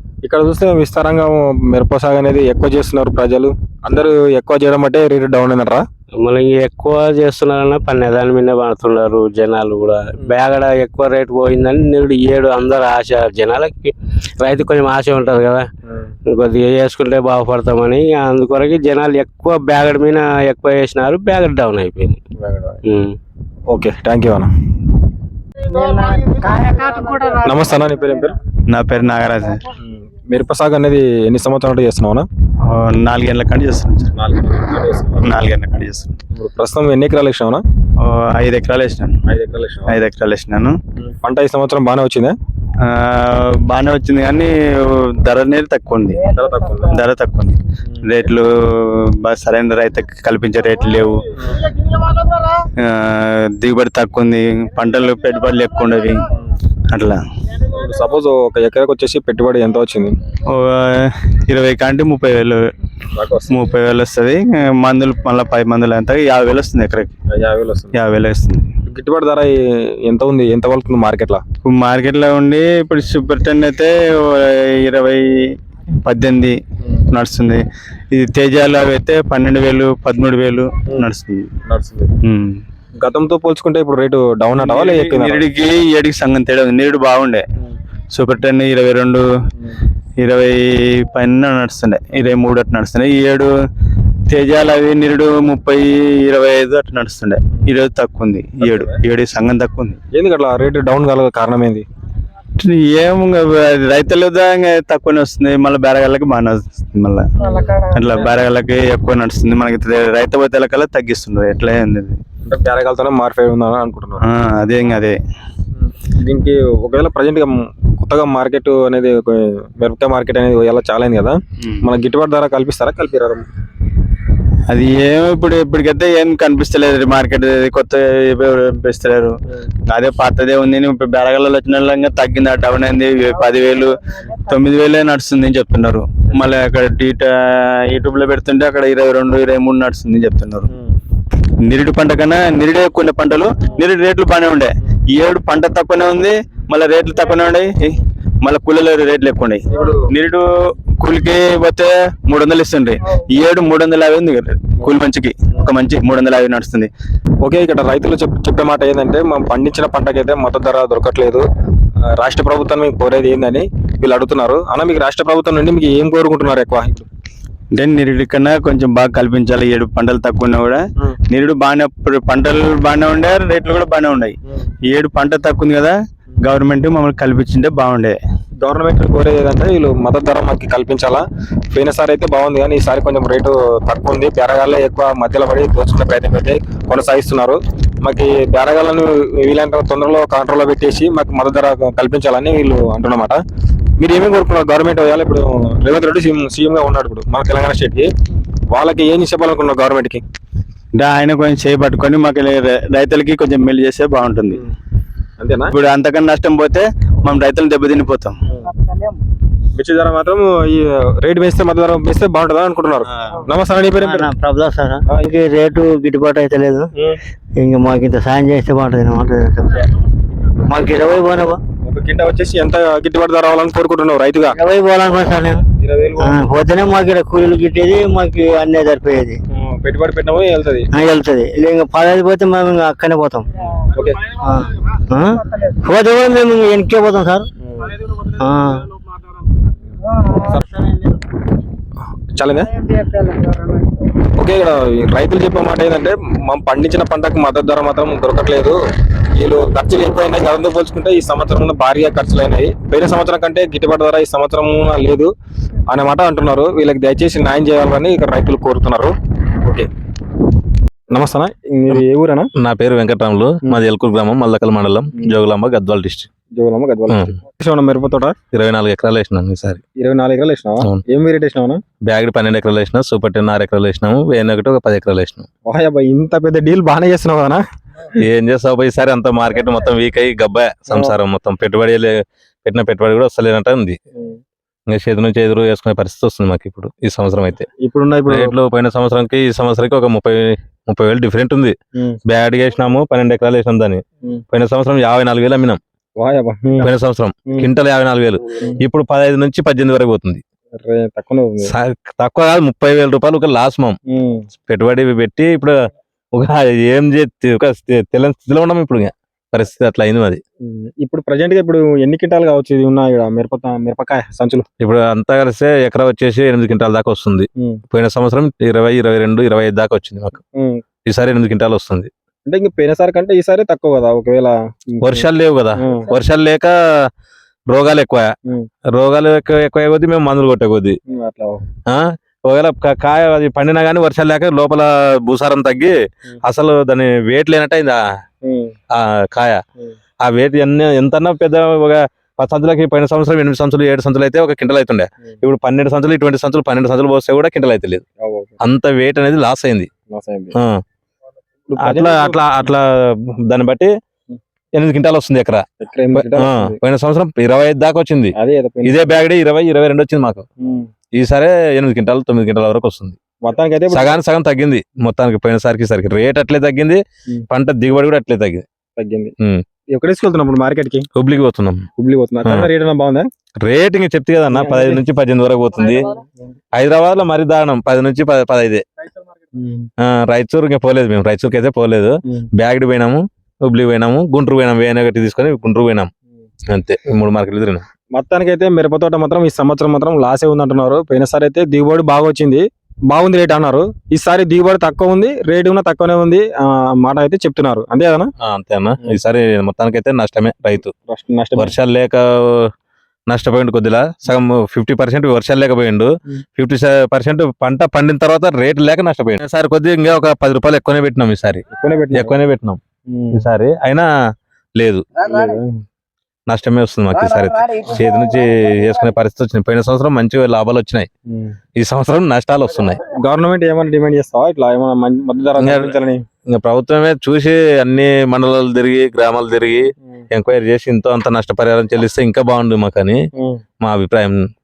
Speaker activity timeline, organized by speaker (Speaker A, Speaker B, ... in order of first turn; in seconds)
Speaker A: 0.2-5.9, 22.4-22.8, 23.7-24.5, 27.3-28.4, 29.8-32.3, 34.1-35.4, 36.3-37.6, 39.3-40.0, 41.0-42.4, 46.2-47.0, 57.7-60.2, 63.1-63.6, 67.3-68.0, 68.9-71.4, 81.7-82.1, 83.0-85.4, 98.6-99.0, 100.1-101.8, 107.4-108.3, 112.5-114.2, 115.8-123.5, 149.7-150.0, 157.4-161.4, 162.2-167.1, 178.6-193.4, 194.0-198.1, 198.7-200.2, 205.4-205.7, 209.8-214.3, 221.8-224.6, 225.8-226.4, 229.5-230.9, 233.9-234.3, 240.4-240.8, 242.3-242.8, 244.4-248.8, 249.3-255.3, 255.9-259.9, 261.1-262.5, 266.6-268.4, 270.0-271.8, 275.7-277.6, 280.9-281.2, 287.8-288.5, 296.2-296.9, 300.8-301.7, 304.1-304.5, 310.6-314.6, 320.6-320.8, 322.5-326.1, 331.1-331.6, 338.4-338.7, 348.2-348.6, 350.1-350.6, 351.7-352.4, 355.8-356.8, 358.4-359.1, 360.6-360.9, 363.4-364.2, 369.0-369.3, 369.9-371.1, 372.0-373.3, 374.5-375.0, 379.5-379.9, 388.1-398.3, 401.1-401.7, 411.7-412.4, 413.1-413.5, 415.2-415.8, 421.3-421.6, 423.2-426.2, 433.4-433.6
Speaker B: 6.2-15.7, 16.3-22.2, 22.9-23.2
Speaker C: 28.7-29.6, 32.6-34.1, 35.2-36.1, 38.0-39.1, 39.9-40.8, 42.8-46.2, 46.8-51.2, 52.6-56.3, 56.9-57.2, 60.5-62.6, 63.5-67.1, 67.9-68.7, 71.6-75.3, 76.0-76.6, 77.1-81.5, 82.2-82.5, 84.5-87.5, 88.1-89.2, 90.2-93.5, 94.3-100.0, 102.6-107.3, 107.9-112.2, 114.2-115.2, 121.6-121.9, 124.7-129.3, 129.9-140.7, 141.6-156.9, 167.8-174.4, 174.9-178.2, 201.0-204.6, 205.7-208.3
Speaker D: 214.0-216.9, 217.6-219.9, 220.7-221.6, 224.5-225.7, 226.2-229.4, 230.9-233.5, 234.4-237.5, 238.4-238.9
Speaker E: 262.6-266.3, 267.1-267.4, 268.5-269.8, 272.1-275.5, 278.2-284.0, 284.9-287.7, 288.3-291.8, 292.3-295.8, 296.8-300.4, 301.6-304.0, 304.6-305.8, 306.4-310.4, 314.8-320.4, 321.1-322.1, 325.0-327.1, 327.7-328.3, 328.9-331.0, 331.9-338.0, 338.9-339.6, 340.2-348.0, 348.6-349.9, 351.8-353.9, 354.8-360.5, 361.2-363.2, 363.9-368.7, 371.2-371.9, 372.4-372.7, 373.6-376.1, 376.7-378.8, 380.0-386.1, 386.7-387.9, 398.4-400.9, 401.6-402.7, 403.3-412.8, 413.3-414.1, 414.8-415.1, 416.5-421.1, 421.8-423.0, 425.6-426.0, 426.5-433.2, 433.8-434.4